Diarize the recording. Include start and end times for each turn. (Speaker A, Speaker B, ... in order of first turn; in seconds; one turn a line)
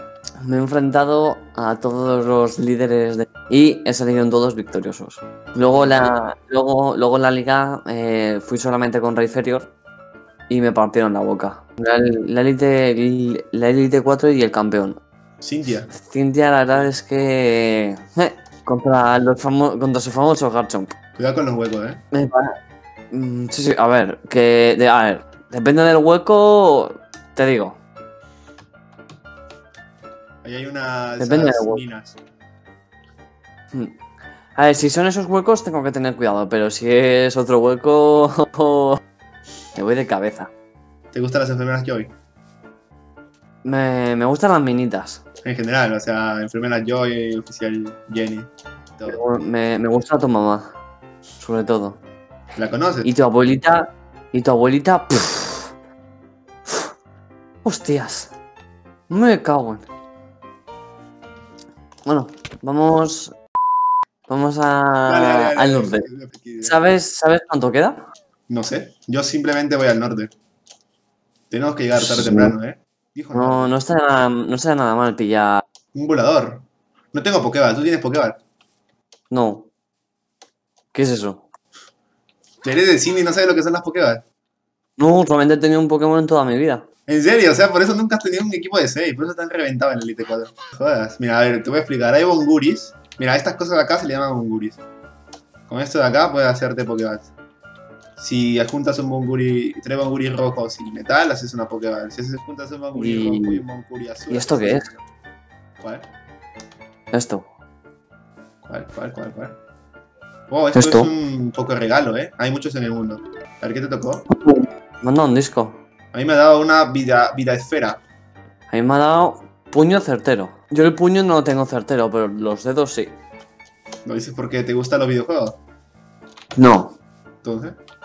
Speaker A: 0.4-9.7
Speaker B: 5.5-6.1
Speaker A: 10.5-15.0
Speaker B: 15.4-15.9
Speaker A: 15.9-20.9
Speaker B: 21.2-22.0
Speaker A: 22.1-22.5
Speaker A: 23.1-27.8
Speaker B: 30.4-32.2
Speaker A: 31.2-31.8
Speaker A: 34.5-39.0
Speaker A: 39.7-40.5
Speaker B: 41.1-42.1
Speaker A: 43.6-45.2
Speaker B: 45.4-49.2
Speaker A: 49.0-50.7
Speaker A: 51.4-52.0
Speaker B: 52.5-53.1
Speaker A: 53.0-55.7
Speaker A: 57.6-58.3
Speaker A: 59.1-59.9
Speaker A: 62.0-63.4
Speaker A: 64.3-66.1
Speaker B: 65.1-66.8
Speaker A: 66.6-68.0
Speaker B: 68.5-70.3
Speaker B: 71.5-73.7
Speaker A: 72.0-72.5
Speaker A: 73.3-75.6
Speaker B: 75.9-78.4
Speaker A: 79.3-79.7
Speaker A: 80.9-81.4
Speaker B: 82.6-84.2
Speaker A: 85.0-86.8
Speaker B: 87.1-94.8
Speaker B: 95.7-97.3
Speaker B: 98.2-105.0
Speaker A: 102.9-103.6
Speaker A: 104.3-104.9
Speaker B: 105.8-106.1
Speaker A: 107.1-107.5
Speaker B: 108.6-109.5
Speaker B: 110.5-114.3
Speaker A: 110.7-111.1
Speaker A: 114.3-115.8
Speaker B: 116.1-118.0
Speaker A: 118.7-123.2
Speaker B: 124.0-125.6
Speaker A: 126.5-126.9
Speaker B: 127.4-127.8